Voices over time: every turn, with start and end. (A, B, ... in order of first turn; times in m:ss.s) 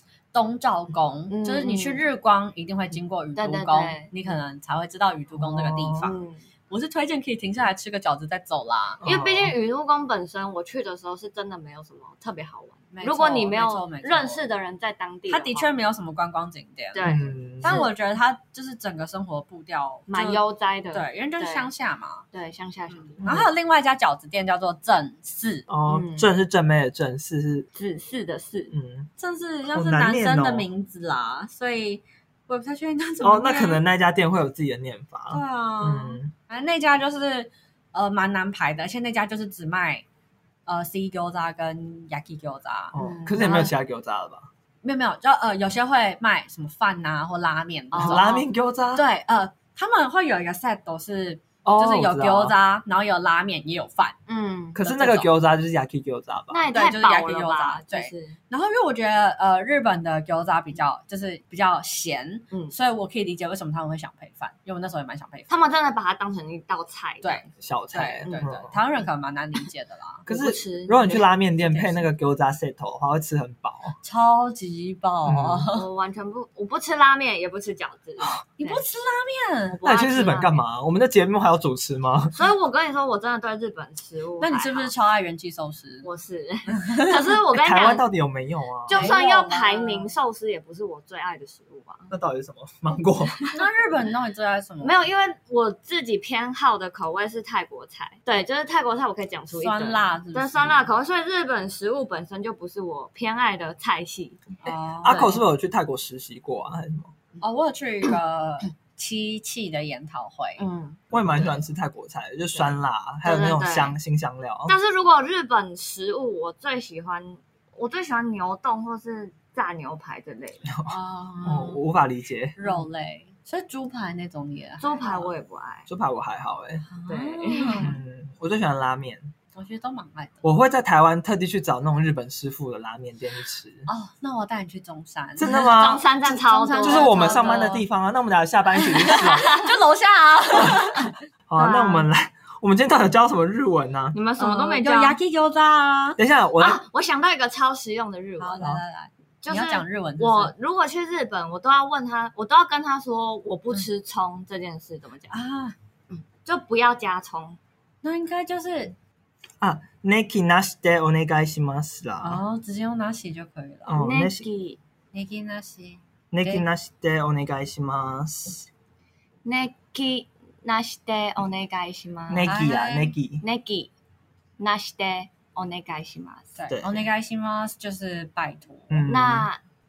0:00.3-0:06.2 A
0:01.3-0:02.0 B
0:03.4-0:04.1 B
0:05.3-0:06.1 C
0:06.0-0:06.4 B
0:06.7-0:09.0 A
0:09.0-0:09.5 C
0:09.0-0:15.7 B
0:12.9-0:14.5 A
0:15.3-0:22.2 A
0:16.9-0:17.9 B
0:17.0-0:17.9 C
0:20.1-0:21.7 B
0:22.3-0:23.4 B
0:22.9-0:25.7 A
0:23.2-0:23.5 C
0:25.7-0:27.7 C
0:25.9-0:26.3 B
0:27.7-0:28.7 B
0:28.7-0:29.1 C
0:29.2-0:33.8 A
0:29.7-0:30.7 C
0:33.2-0:36.3 C
0:35.3-0:40.0 A
0:40.7-0:43.7 A
0:42.9-0:44.5 C
0:43.0-0:43.7 B
0:44.8-0:48.4 A
0:47.9-0:48.4 B
0:48.0-0:49.0 C
0:48.9-0:54.2 A
0:51.6-0:52.5 C
0:54.3-0:54.8 B
0:54.8-0:56.6 C
0:54.8-0:55.3 A
0:56.5-0:58.4 B
0:56.7-1:05.5 A
1:05.5-1:07.5 B
1:07.2-1:10.2 A
1:07.6-1:08.8 C
1:08.2-1:08.5 B
1:10.3-1:14.0 C
1:10.3-1:11.2 B
1:11.6-1:12.0 A
1:14.0-1:15.9 A
1:15.2-1:15.7 C
1:15.7-1:18.8 B
1:18.6-1:19.8 A
1:19.7-1:20.6 B
1:19.8-1:22.3 C
1:22.3-1:24.9 B
1:24.4-1:26.1 A
1:26.0-1:28.0 B
1:26.7-1:27.2 A
1:27.5-1:29.1 C
1:28.9-1:32.2 B
1:28.9-1:30.1 A
1:32.1-1:33.4 C
1:33.5-1:35.0 A
1:34.8-1:45.4 B
1:39.5-1:40.9 A
1:44.6-1:45.3 A
1:45.0-1:47.1 C
1:47.4-1:50.6 A
1:50.6-1:51.0 B
1:51.1-1:54.7 C
1:52.5-1:54.0 B
1:54.7-2:00.7 B
2:00.7-2:02.6 C
2:00.9-2:01.8 A
2:02.6-2:05.3 A
2:04.8-2:05.9 B
2:05.9-2:06.9 C
2:07.0-2:08.0 A
2:07.0-2:08.0 B
2:07.8-2:09.3 C
2:09.6-2:10.4 A
2:10.4-2:13.9 C
2:13.9-2:17.7 A
2:15.4-2:16.0 C
2:15.4-2:17.8 B
2:16.8-2:19.4 C
2:18.8-2:21.1 A
2:19.0-2:19.7 B
2:20.5-2:20.8 C
2:21.5-2:24.2 C
2:21.6-2:22.1 B
2:24.1-2:25.2 B
2:24.4-2:26.2 A
2:26.2-2:26.8 C
2:26.6-2:28.8 B
2:28.4-2:30.5 A
2:29.4-2:35.4 B
2:35.3-2:35.8 A
2:36.1-2:37.6 B
2:38.0-2:39.0 A
2:39.6-2:42.4 C
2:42.2-2:43.9 A
2:43.9-2:44.4 C
2:44.0-2:44.8 B
2:45.1-2:46.6 A
2:46.3-2:48.7 C
2:49.4-2:52.5 B
2:52.3-2:53.4 C
2:52.4-2:53.2 A
2:53.4-2:53.9 B
2:54.6-2:56.5 B
2:56.6-2:59.1 A
2:56.7-2:57.1 C
2:58.9-2:59.5 C
2:59.1-2:59.6 B